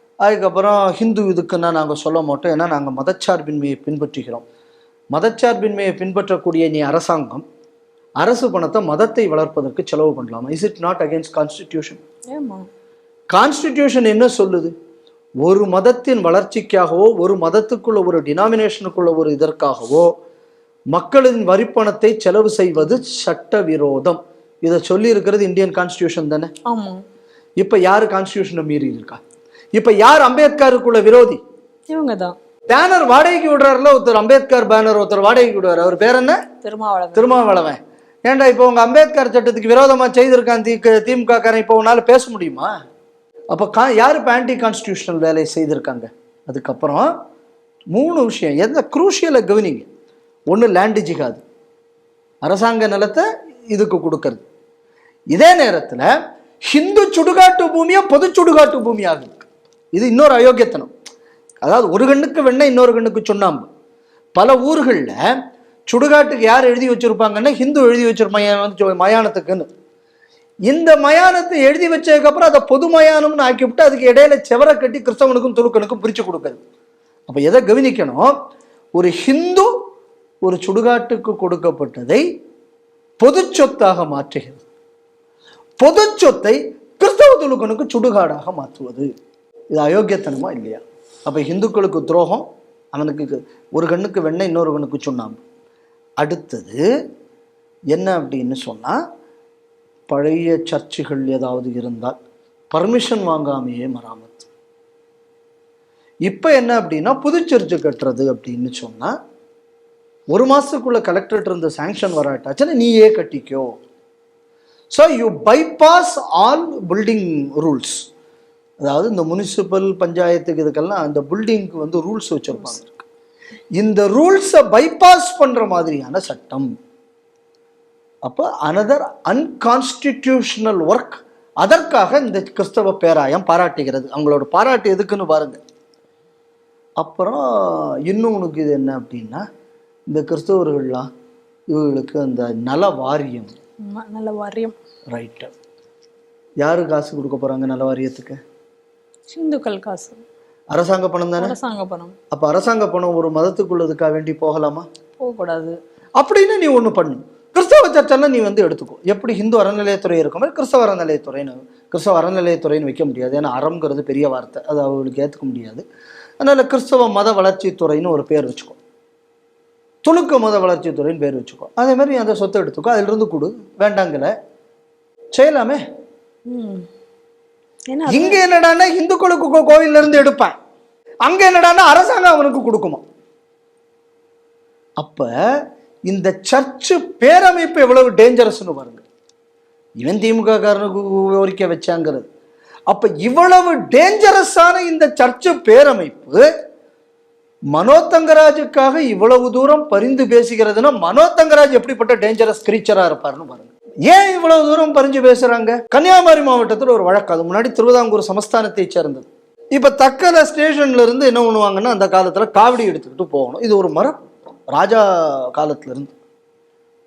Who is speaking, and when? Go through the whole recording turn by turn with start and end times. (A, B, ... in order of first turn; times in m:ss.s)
0:00.2-0:04.4 A
0:05.1-0:07.4 A
0:08.2-0:12.0 A
0:12.3-0:12.6 B
0:13.3-0:14.7 A
0:15.4-0:20.1 A
0:20.9-0:26.5 A
0:26.7-0:27.0 B
0:27.6-0:29.2 A
0:29.8-0:31.4 A
0:31.9-0:32.4 B
0:32.7-0:36.4 A
0:36.6-0:37.4 B
0:37.1-0:42.7 A
0:43.5-0:47.1 A
0:47.9-0:49.9 A
0:50.5-0:51.4 A
0:52.4-0:54.4 A
0:55.3-0:56.1 A
0:56.7-1:00.9 A
1:01.6-1:03.7 A
1:04.3-1:05.2 A
1:05.9-1:09.7 A
1:10.7-1:16.6 A
1:17.3-1:18.3 A
1:18.9-1:19.7 A
1:20.4-1:22.2 A
1:23.2-1:24.6 A
1:25.8-1:29.1 A
1:29.7-1:35.4 A
1:36.2-1:36.8 A
1:37.9-1:39.0 A
1:40.1-1:42.2 A
1:42.7-1:44.4 A
1:46.2-1:49.1 A
1:50.3-1:53.7 A
1:54.9-1:58.0 A
1:58.8-2:03.1 A
2:03.8-2:06.7 A
2:08.2-2:15.6 A
2:17.0-2:19.4 A
2:20.1-2:21.1 A
2:21.7-2:23.5 A
2:23.9-2:24.7 B
2:25.1-2:25.5 A
2:26.6-2:28.4 A
2:29.3-2:30.2 B
2:30.7-2:31.6 A
2:31.4-2:32.1 B
2:32.3-2:34.8 A
2:35.2-2:35.8 B
2:36.2-2:45.8 A
2:46.4-2:48.8 A
2:50.0-2:54.3 A
2:55.3-2:55.8 A
2:56.5-2:56.8 B
2:57.9-2:58.4 B
2:58.1-3:00.6 A
3:01.2-3:03.0 A
3:05.0-3:05.3 A
3:06.1-3:09.0 A
3:10.0-3:12.3 A
3:12.9-3:16.4 A
3:17.7-3:34.1 A
3:34.7-3:36.1 A